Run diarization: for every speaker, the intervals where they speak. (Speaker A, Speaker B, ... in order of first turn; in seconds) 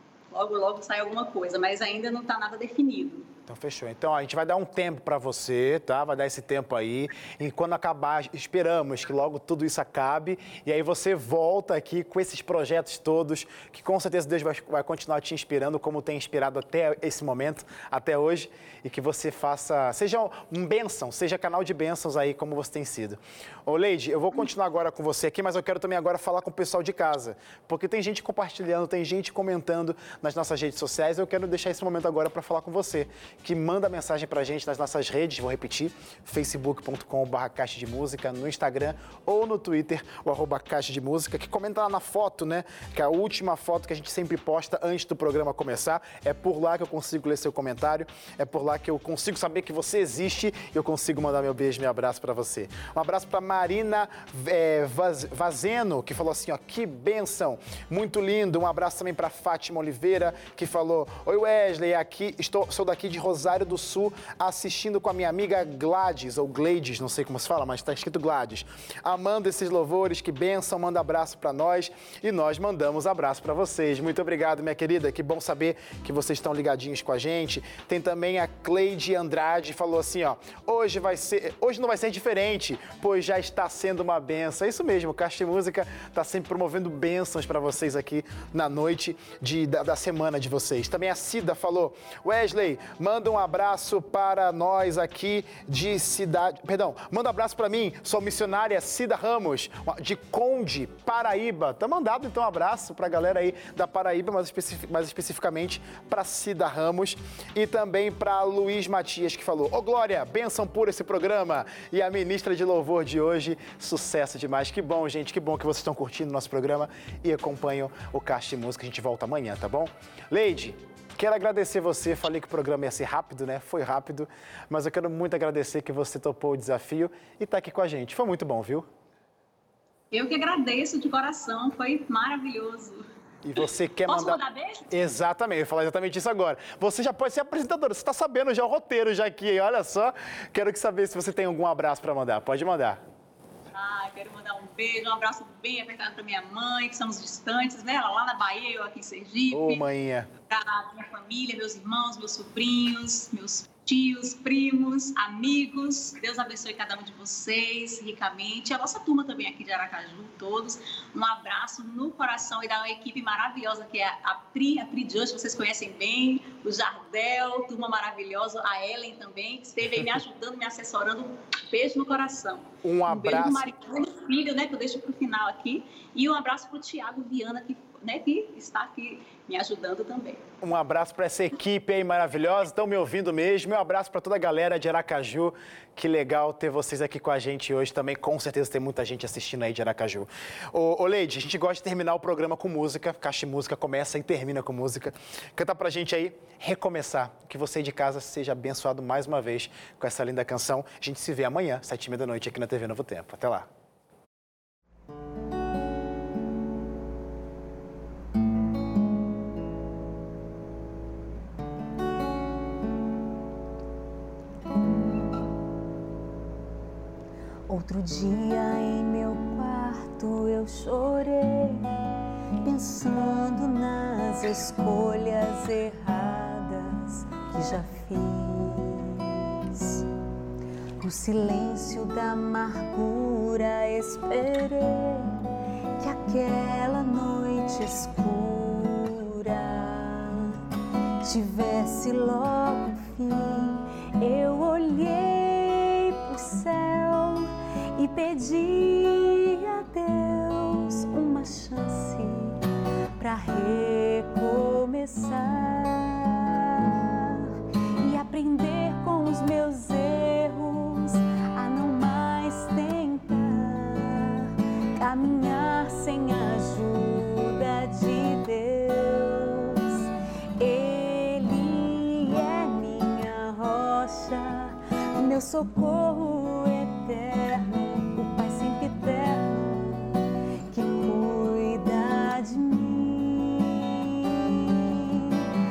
Speaker A: 0.3-3.3, 130.1-133.0, 134.1-134.9, 143.7-149.8, 150.5-180.4
Speaker B: 3.5-128.9, 133.4-134.4, 134.9-143.0, 149.5-150.3, 172.8-173.7, 180.6-203.7
Speaker C: 217.7-222.0, 222.6-230.0, 231.0-235.4, 236.0-240.6, 241.2-252.6, 253.2-285.5